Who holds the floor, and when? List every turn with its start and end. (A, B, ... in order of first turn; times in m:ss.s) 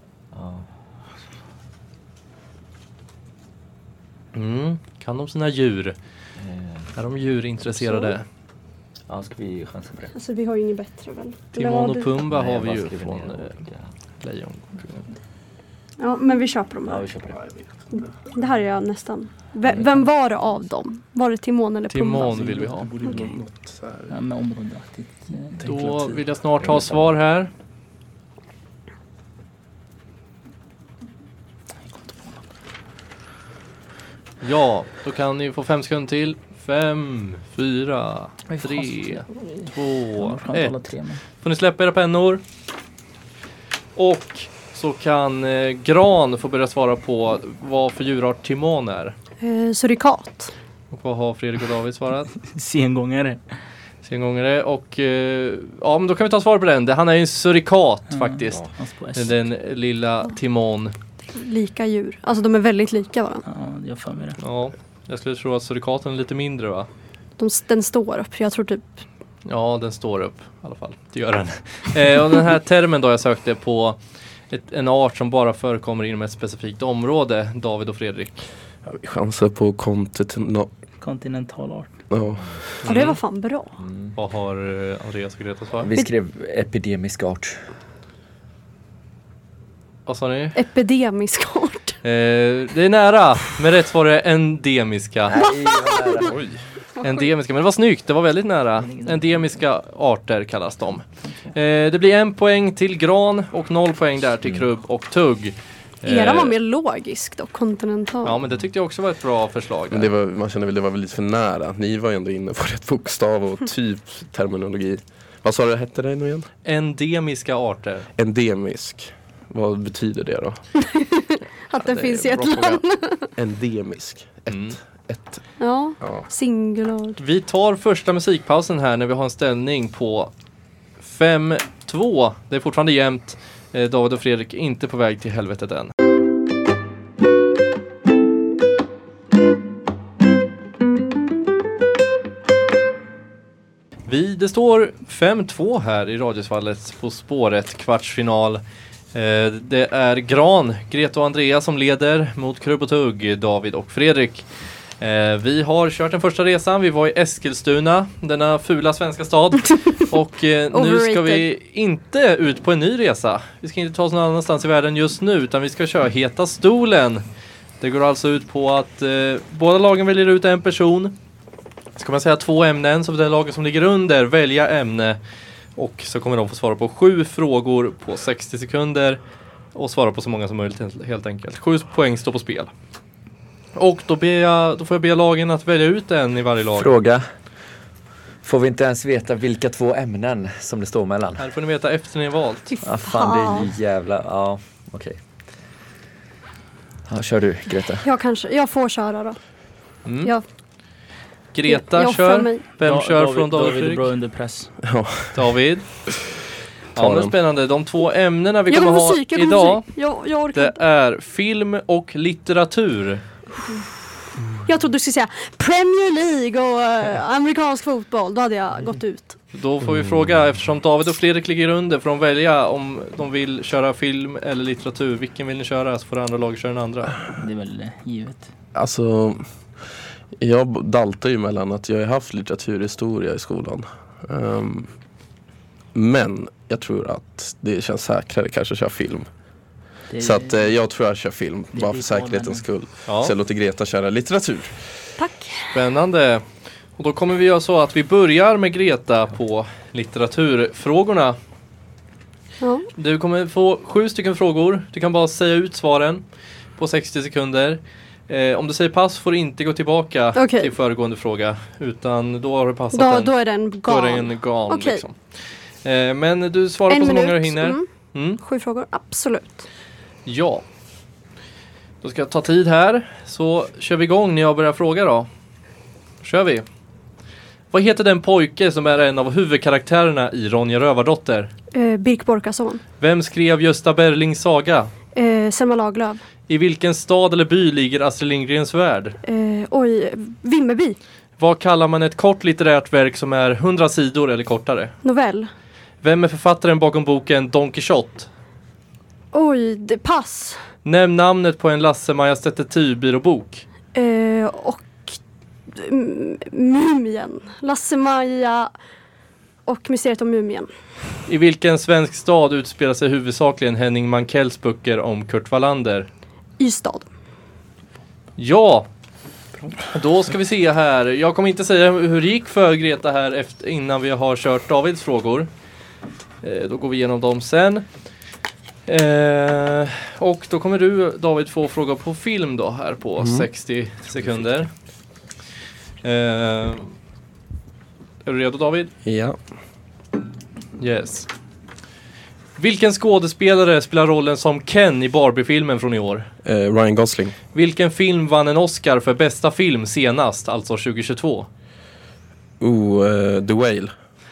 0:00.3-0:00.6 A
0:04.3-0:06.0 B
0:06.4-0:06.9 A
0:07.0-0:08.2 B
0:07.8-0:08.1 C
0:09.1-0:10.1 A
0:10.1-0:12.2 C
0:11.6-0:13.6 B
0:12.3-0:13.9 A
0:14.2-0:15.1 B
0:16.0-0:17.0 C
0:16.8-0:17.4 A
0:17.3-0:18.0 D
0:17.9-0:23.1 C
0:21.9-0:22.9 B
0:22.5-0:22.9 E
0:23.0-0:24.1 D
0:24.1-0:25.7 E
0:25.6-0:27.5 B
0:26.6-0:27.1 A
0:31.8-0:32.4 E
0:34.4-0:40.8 B
0:38.5-0:41.2 E
0:41.4-0:42.4 B
0:44.0-0:49.1 B
0:49.4-0:50.5 C
0:50.9-0:52.3 B
0:52.4-0:53.4 E
0:54.0-1:00.9 B
0:58.1-0:59.4 E
1:01.3-1:03.4 C
1:03.4-1:04.4 E
1:04.4-1:06.9 B
1:07.4-1:09.0 C
1:09.4-1:14.0 B
1:14.5-1:18.4 B
1:18.8-1:20.7 D
1:21.0-1:22.0 E
1:22.1-1:22.6 D
1:22.8-1:23.2 B
1:22.8-1:23.8 C
1:23.8-1:24.2 A
1:24.2-1:25.9 B
1:25.8-1:27.6 A
1:30.0-1:30.6 B
1:30.5-1:32.0 C
1:32.0-1:35.4 B
1:35.3-1:36.4 A
1:35.4-1:36.3 C
1:36.2-1:36.6 D
1:37.0-1:46.5 B
1:38.8-1:39.5 E
1:41.2-1:41.5 E
1:46.0-1:48.4 C
1:48.2-1:50.1 B
1:49.9-1:56.5 D
1:56.6-1:58.1 B
1:58.2-2:00.6 D
2:00.8-2:03.3 C
2:01.8-2:02.8 B
2:03.4-2:05.4 D
2:04.5-2:04.8 B
2:05.6-2:07.2 C
2:07.2-2:10.3 B
2:11.0-2:15.9 B
2:24.1-2:28.6 B
2:29.1-2:34.4 B
2:35.0-2:47.2 B
2:40.7-2:41.4 C
2:47.8-2:51.1 B
2:52.0-2:55.2 B
2:55.8-2:59.2 B
2:59.7-3:02.7 B
3:03.8-3:06.9 B
3:06.7-3:07.2 A
3:08.4-3:11.5 A
3:11.4-3:12.7 B
3:12.7-3:13.7 C
3:12.8-3:15.2 A
3:17.1-3:18.0 A
3:18.0-3:19.4 C
3:20.0-3:20.3 B
3:21.5-3:24.1 B
3:21.7-3:22.6 C
3:22.8-3:24.7 E
3:24.8-3:25.5 D
3:25.3-3:25.9 B
3:26.9-3:29.9 B
3:27.0-3:27.3 D
3:28.7-3:30.8 C
3:30.5-3:33.2 B
3:34.6-3:39.4 C
3:39.5-3:47.2 B
3:47.3-3:48.5 E
3:48.7-3:49.4 D
3:50.4-3:54.9 D
3:55.9-3:59.3 D
4:00.1-4:00.6 E
4:00.2-4:04.8 D
4:01.7-4:02.6 E
4:03.1-4:03.3 B
4:05.2-4:05.8 C
4:05.7-4:06.4 B
4:07.0-4:11.4 B
4:12.6-4:12.9 C
4:13.0-4:16.2 B
4:16.8-4:23.3 B
4:20.3-4:20.7 C
4:22.9-4:25.0 C
4:23.8-4:25.2 B
4:25.8-4:28.4 B
4:26.9-4:27.9 C
4:28.4-4:29.6 C
4:30.2-4:30.6 B
4:32.0-4:35.3 B
4:36.2-4:36.6 B
4:37.7-4:41.5 B
4:41.7-4:42.8 C
4:43.0-4:44.9 B
4:45.1-4:46.2 C
4:46.5-4:49.2 B
4:49.2-4:51.0 C
4:51.4-4:54.9 B
4:55.0-4:55.5 C
4:56.0-4:58.3 B
4:59.3-5:00.6 C
5:00.8-5:03.6 B
5:03.9-5:05.2 C
5:05.7-5:08.7 C
5:09.6-5:10.7 C
5:11.3-5:16.1 B
5:16.6-5:17.1 C
5:18.4-5:18.9 B
5:19.9-5:25.5 B
5:26.4-5:27.8 B
5:28.9-5:34.7 B
5:33.2-5:33.5 D
5:36.0-5:36.9 B
5:38.2-5:38.9 B
5:39.0-5:39.4 D
5:40.8-5:41.3 B
5:42.6-5:46.3 B
5:46.4-5:47.4 D
5:47.5-5:51.5 B
5:52.6-5:53.9 D